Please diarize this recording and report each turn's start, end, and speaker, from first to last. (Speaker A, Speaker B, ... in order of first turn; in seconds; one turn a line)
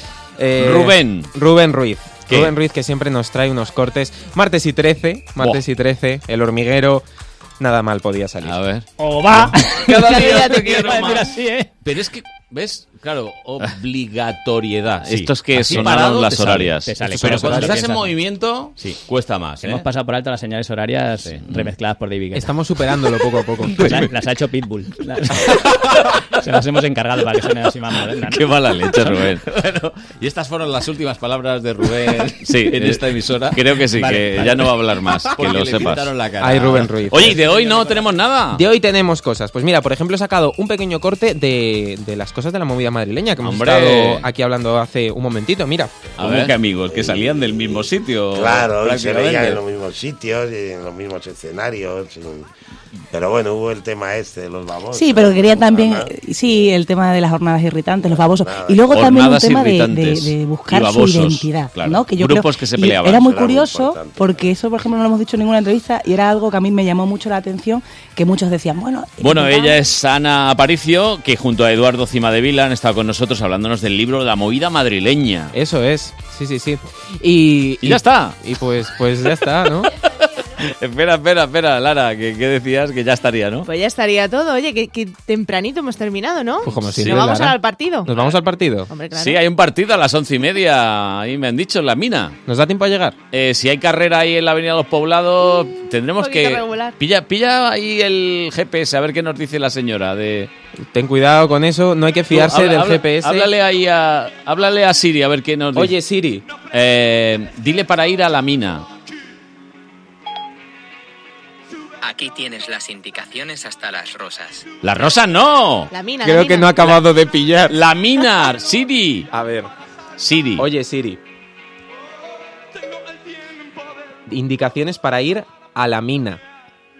Speaker A: 0.4-7.0
Speaker B: 0.6-1.3
Speaker B: 2.3-2.5
Speaker A: 7.6-8.6
Speaker B: 8.4-11.3
Speaker C: 9.0-11.7
Speaker D: 9.8-11.3
Speaker B: 11.8-19.9
Speaker C: 15.0-18.1
Speaker A: 17.0-17.8
Speaker C: 19.6-22.5
Speaker B: 21.2-21.7
Speaker A: 22.3-24.1
Speaker C: 23.6-25.7
Speaker B: 25.0-26.0
Speaker C: 26.4-29.2
Speaker B: 28.1-38.6
Speaker C: 34.0-34.7
Speaker C: 35.4-36.0
Speaker A: 36.4-37.5
Speaker C: 37.1-38.1
Speaker A: 38.5-46.5
Speaker B: 43.4-44.2
Speaker B: 46.2-49.6
Speaker E: 46.8-52.5
Speaker E: 53.1-56.1
Speaker F: 54.9-69.8
Speaker E: 58.0-58.9
Speaker B: 58.9-63.3
Speaker E: 63.2-64.5
Speaker B: 69.2-75.5
Speaker A: 75.5-79.9
Speaker B: 77.8-78.4
Speaker B: 80.6-83.7
Speaker D: 83.6-88.1
Speaker B: 86.6-87.2
Speaker A: 86.6-88.9
Speaker D: 88.9-89.4
Speaker B: 89.1-92.4
Speaker A: 92.5-93.2
Speaker B: 93.3-100.5
Speaker D: 96.2-97.0
Speaker A: 100.9-103.5
Speaker B: 102.3-105.9
Speaker A: 105.7-106.4
Speaker B: 106.7-108.8
Speaker G: 112.0-114.7
Speaker B: 114.8-115.9
Speaker D: 115.9-117.0
Speaker A: 116.2-117.8
Speaker B: 117.7-119.3
Speaker A: 119.3-119.7
Speaker B: 120.2-120.7
Speaker A: 120.6-121.2
Speaker A: 124.3-126.4